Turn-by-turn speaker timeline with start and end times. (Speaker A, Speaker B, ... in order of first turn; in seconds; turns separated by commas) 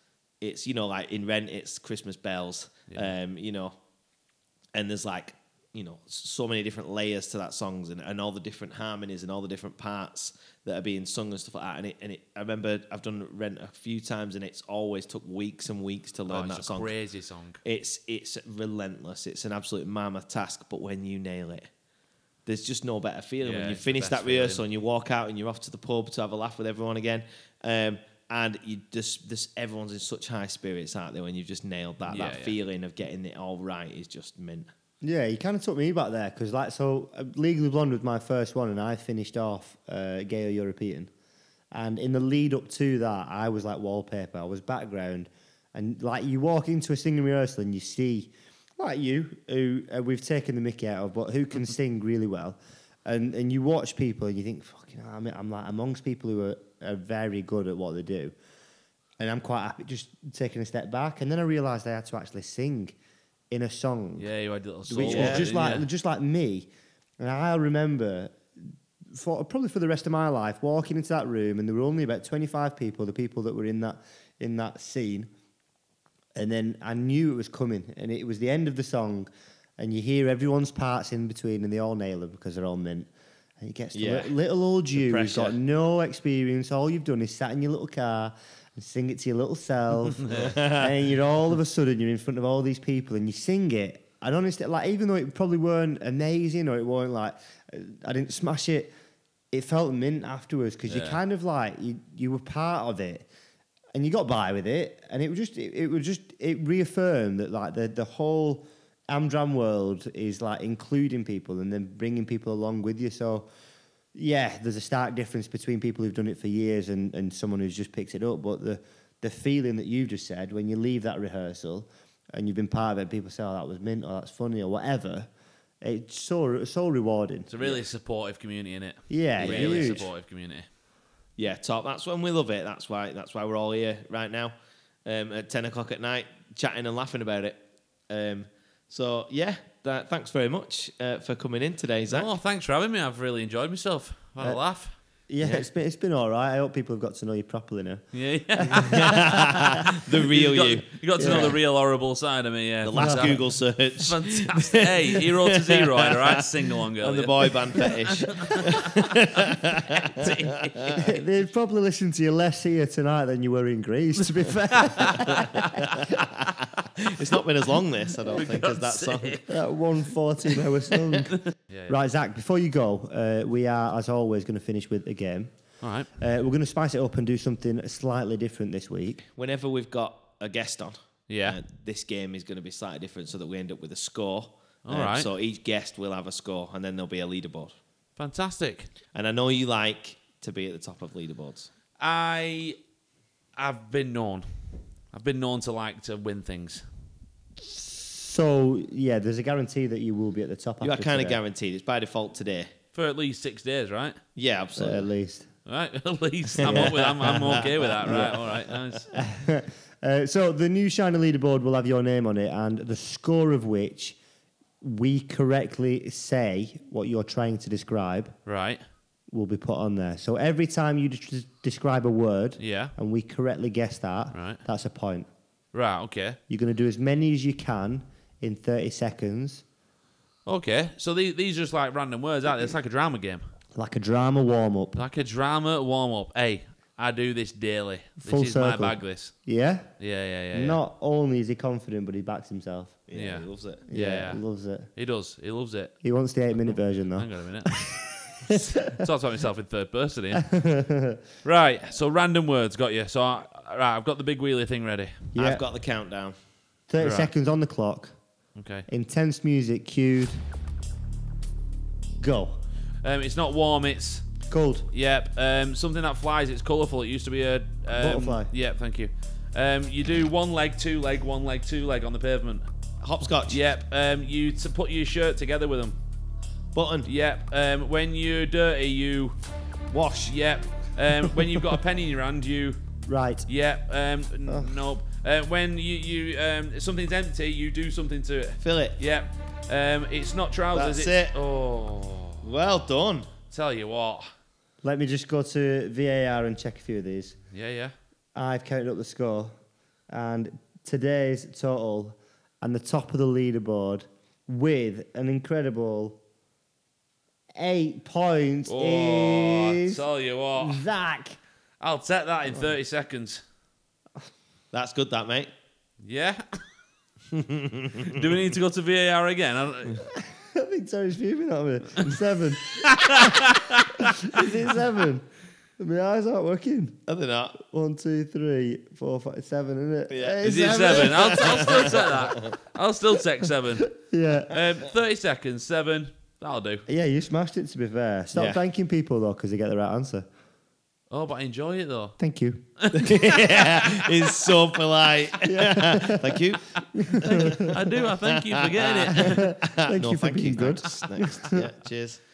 Speaker A: 0.4-3.8, Speaker A: 4.7-16.9, Speaker B: 16.3-17.6, Speaker A: 17.6-21.7, Speaker A: 22.5-34.7, Speaker B: 23.4-24.6, Speaker B: 32.1-32.5, Speaker C: 35.0-41.1, Speaker C: 41.7-58.3, Speaker C: 59.2-63.0, Speaker C: 63.5-64.3, Speaker B: 64.2-65.9, Speaker C: 64.9-66.7, Speaker A: 65.0-65.5, Speaker C: 67.2-75.3, Speaker C: 76.4-98.9, Speaker A: 83.9-84.3, Speaker A: 85.0-85.6, Speaker A: 90.3-91.0, Speaker C: 99.5-103.3, Speaker B: 100.9-101.2, Speaker C: 103.9-113.5, Speaker C: 114.1-125.3, Speaker C: 125.8-127.7, Speaker B: 127.5-130.7, Speaker C: 129.1-130.1, Speaker A: 129.4-130.1, Speaker A: 131.4-134.5, Speaker A: 135.1-142.3, Speaker B: 142.1-144.9, Speaker C: 145.3-148.1, Speaker B: 148.1-161.0, Speaker C: 148.6-149.4, Speaker A: 148.9-151.6, Speaker C: 151.2-151.6, Speaker A: 152.8-161.0, Speaker C: 152.9-153.3, Speaker C: 161.0-166.2, Speaker B: 164.5-166.1, Speaker A: 166.4-169.5, Speaker B: 168.2-169.4, Speaker C: 169.5-171.4, Speaker A: 170.9-171.2, Speaker B: 171.7-172.0, Speaker C: 171.9-175.5, Speaker B: 175.8-176.1, Speaker C: 176.2-179.2, Speaker A: 179.4-187.8, Speaker B: 181.3-181.6, Speaker B: 184.8-185.3, Speaker B: 188.2-188.9, Speaker A: 189.1-191.7, Speaker B: 192.0-192.8, Speaker B: 193.6-194.5, Speaker B: 195.1-196.8, Speaker C: 197.6-201.4, Speaker A: 200.8-202.7, Speaker B: 202.9-204.2, Speaker A: 204.4-205.1, Speaker C: 204.8-205.5, Speaker B: 205.7-209.1, Speaker A: 206.6-209.0, Speaker C: 206.6-208.4, Speaker C: 209.1-214.2, Speaker C: 214.8-218.4, Speaker B: 218.5-218.8, Speaker C: 219.3-225.3, Speaker B: 222.6-222.9, Speaker B: 224.3-224.6, Speaker B: 225.7-226.4, Speaker C: 226.5-229.6, Speaker B: 230.5-233.4, Speaker C: 233.8-235.0, Speaker B: 235.0-239.3, Speaker C: 238.2-239.9, Speaker B: 240.0-240.8, Speaker C: 240.5-243.1, Speaker A: 243.1-243.8, Speaker B: 243.1-244.4, Speaker C: 243.9-244.9, Speaker B: 244.9-246.0, Speaker C: 246.0-249.0, Speaker B: 246.5-250.5, Speaker C: 250.4-251.2, Speaker B: 251.4-255.3, Speaker C: 255.3-255.6, Speaker A: 255.4-256.4, Speaker C: 256.9-258.1, Speaker B: 257.0-257.3, Speaker B: 258.6-258.9, Speaker C: 258.9-260.4, Speaker C: 262.2-262.6, Speaker B: 263.0-264.3, Speaker C: 264.5-264.9, Speaker B: 264.9-272.7, Speaker C: 267.9-268.5, Speaker A: 273.0-273.6, Speaker B: 273.5-276.0, Speaker A: 276.8-277.1, Speaker B: 277.1-279.4, Speaker A: 279.9-280.4, Speaker B: 280.3-282.8, Speaker C: 283.1-283.4, Speaker B: 283.5-292.5, Speaker C: 284.5-284.8, Speaker A: 288.6-289.0, Speaker A: 290.7-291.4, Speaker A: 292.4-293.3, Speaker B: 293.5-294.3, Speaker C: 294.8-297.4, Speaker B: 297.5-297.9, Speaker C: 298.4-299.5, Speaker C: 300.1-306.2, Speaker C: 307.6-310.0, Speaker B: 308.7-310.9, Speaker C: 310.6-311.4, Speaker B: 311.8-313.4, Speaker A: 314.7-315.5, Speaker B: 316.0-316.6, Speaker A: 317.3-318.2, Speaker B: 318.0-320.0, Speaker C: 320.1-325.3, Speaker B: 322.8-324.5, Speaker C: 325.8-326.9, Speaker A: 327.1-327.6, Speaker C: 327.6-332.0, Speaker A: 330.1-332.6, Speaker B: 330.4-333.9, Speaker C: 333.9-334.6, Speaker B: 334.5-336.9, Speaker C: 336.9-340.3, Speaker A: 338.3-338.6, Speaker B: 341.1-342.2, Speaker C: 342.2-342.6, Speaker B: 342.8-344.3, Speaker A: 342.9-352.2, Speaker C: 345.4-346.4, Speaker C: 346.9-347.7, Speaker B: 347.3-349.5, Speaker C: 349.1-351.6